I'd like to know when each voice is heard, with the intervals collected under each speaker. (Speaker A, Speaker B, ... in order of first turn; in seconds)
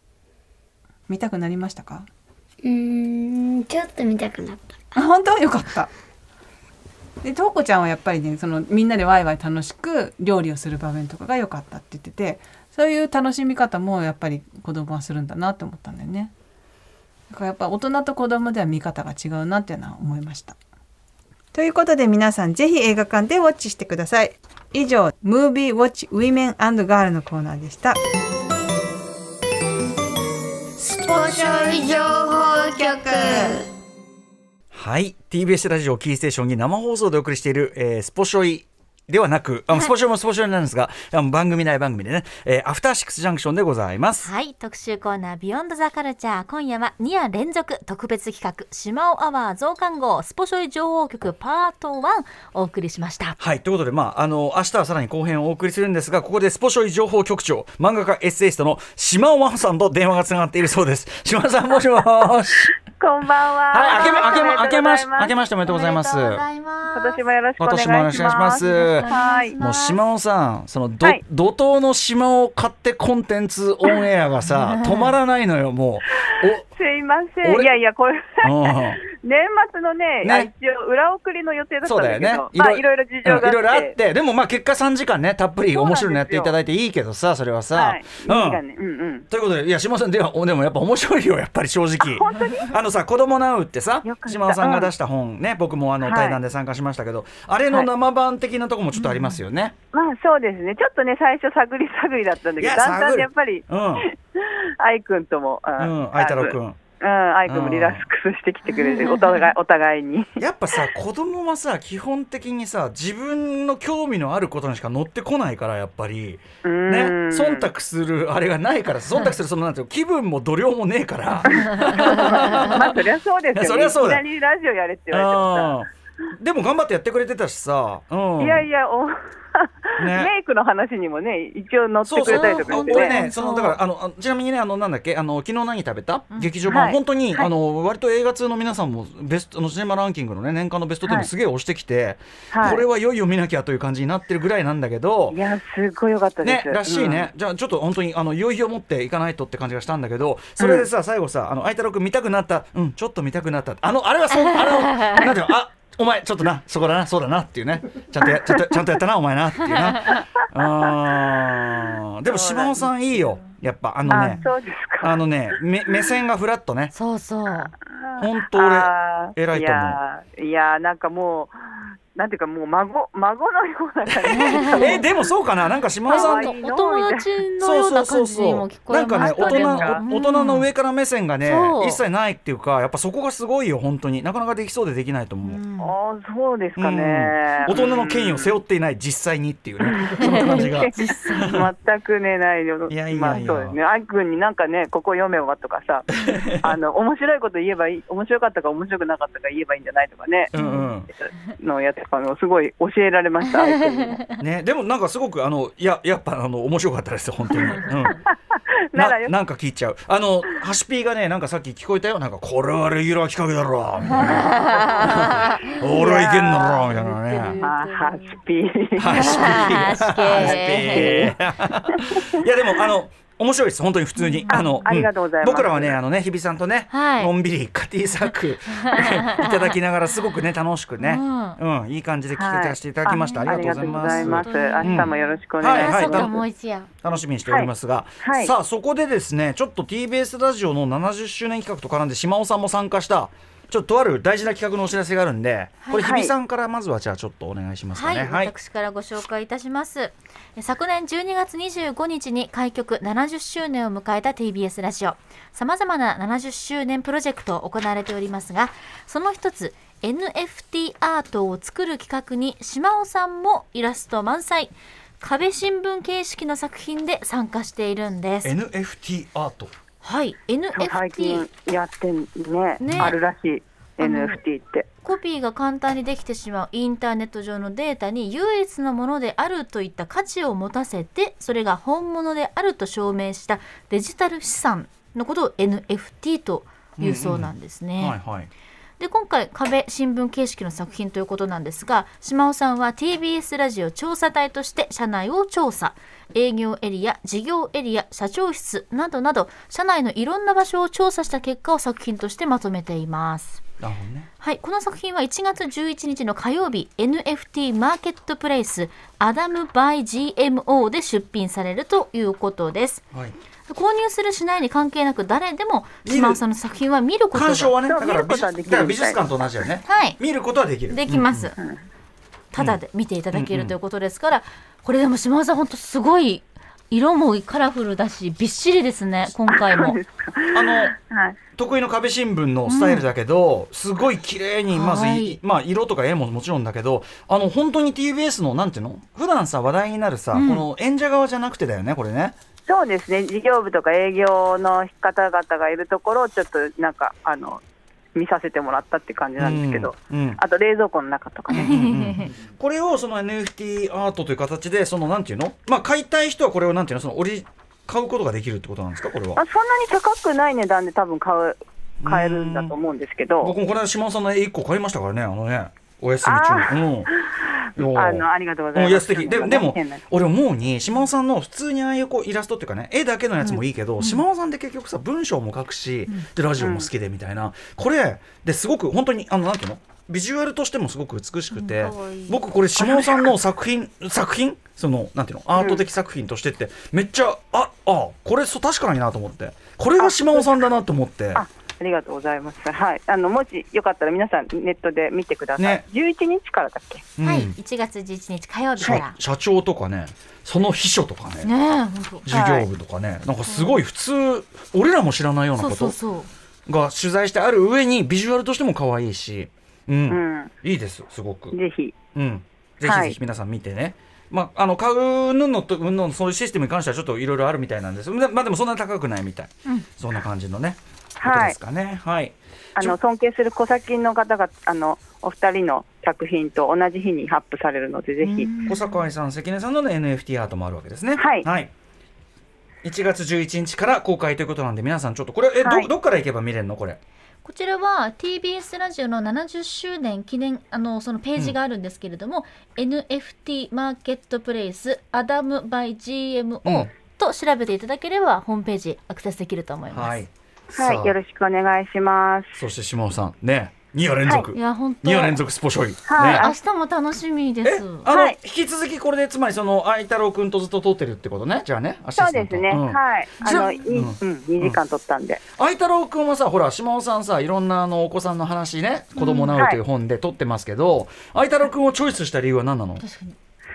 Speaker A: 1.1-2.1, 5.0-5.9, 7.2-16.3, 17.3-20.6, 21.5-28.0, 31.3-31.9
Speaker B: 2.6-5.0, 30.8-33.7
Speaker C: 34.7-44.3, 53.4-62.7, 63.7-66.5, 67.6-76.7, 77.4-77.7, 78.4-79.0, 80.2-80.5, 81.8-88.6, 89.3-99.8, 102.6-104.1, 105.8-106.8, 107.5-108.0, 110.4-123.0, 123.5-124.2, 125.1-128.7, 130.0-130.3, 132.1-145.4, 146.4-164.4, 165.0-166.9, 168.2-170.0, 174.1-176.5, 177.6-185.6, 186.8-191.7, 192.9-193.8, 196.1-196.7, 200.5-201.1, 204.4-208.2, 208.9-217.7, 219.0-236.4, 237.0-248.5, 268.4-269.7, 272.9-273.1, 287.0-288.5, 303.8-304.3, 316.1-316.4, 317.3-321.5, 323.3-323.7, 330.5-330.9, 331.6-342.4, 349.4-350.4, 351.5-359.4, 362.0-362.7, 363.4-367.1, 367.8-391.4, 395.6-395.8, 397.2-397.6, 398.8-401.5, 402.3-406.0, 406.7-411.6, 412.1-422.9, 428.7-431.7, 432.8-437.0, 446.6-446.9, 449.9-451.1, 452.6-456.5, 457.6-464.8, 465.6-473.0
Speaker D: 44.2-53.4, 64.0-64.4, 65.7-67.2, 68.6-70.0, 74.5-75.2, 108.7-109.5, 122.0-122.3, 132.3-133.8, 136.3-136.7, 154.3-155.4, 164.1-164.4, 166.9-167.7, 174.3-175.1, 176.1-180.7, 181.4-182.0, 185.4-185.9, 190.2-191.5, 200.6-200.9, 203.4-204.4, 207.6-207.9, 214.1-218.4, 219.1-221.3, 224.2-224.9, 226.9-227.3, 228.3-229.8, 231.0-231.6, 233.1-236.9, 247.9-268.5, 270.0-271.5, 272.8-273.2, 274.0-274.4, 275.0-288.2, 289.0-303.6, 304.4-313.0, 313.7-317.8, 319.9-320.2, 320.9-321.6, 322.5-330.0, 332.7-333.1, 334.7-335.4, 340.3-340.6, 351.5-352.3, 381.5-382.5, 397.2-399.2, 401.4-402.3, 403.5-403.8, 405.6-406.3, 428.2-429.1, 437.4-450.2, 454.5-455.4, 456.2-458.1, 469.2-469.6, 473.0-473.4
Speaker E: 63.0-65.3, 66.9-69.6, 76.2-84.0, 85.7-86.5, 87.7-89.3, 92.0-92.7, 94.0-94.9, 96.0-96.4, 99.9-110.8, 116.6-117.7, 121.5-125.7, 128.4-133.2, 136.7-137.5, 141.1-141.3, 142.5-142.8, 145.3-147.3, 150.6-150.8, 158.2-158.6, 160.3-161.6, 162.3-162.9, 164.1-165.2, 167.9-175.3, 176.1-177.3, 179.2-180.0, 185.8-188.5, 189.8-196.1, 196.6-200.5, 201.1-204.2, 208.3-209.3, 215.9-216.8, 217.6-219.7, 220.4-221.3, 221.9-222.4, 224.5-226.0, 232.3-236.4, 238.2-238.5, 246.0-246.3, 270.8-274.9, 317.9-319.2, 329.5-331.4, 342.7-347.6, 348.1-351.9, 359.4-363.6, 366.2-370.1, 376.6-376.9, 385.6-385.8, 390.0-390.7, 391.4-397.1, 402.3-402.7, 410.1-410.5, 411.5-412.0, 412.8-413.1, 421.2-421.6, 422.8-428.6, 431.2-431.5, 435.6-435.9, 450.7-452.6, 456.1-456.6, 458.1-458.4, 462.2-465.4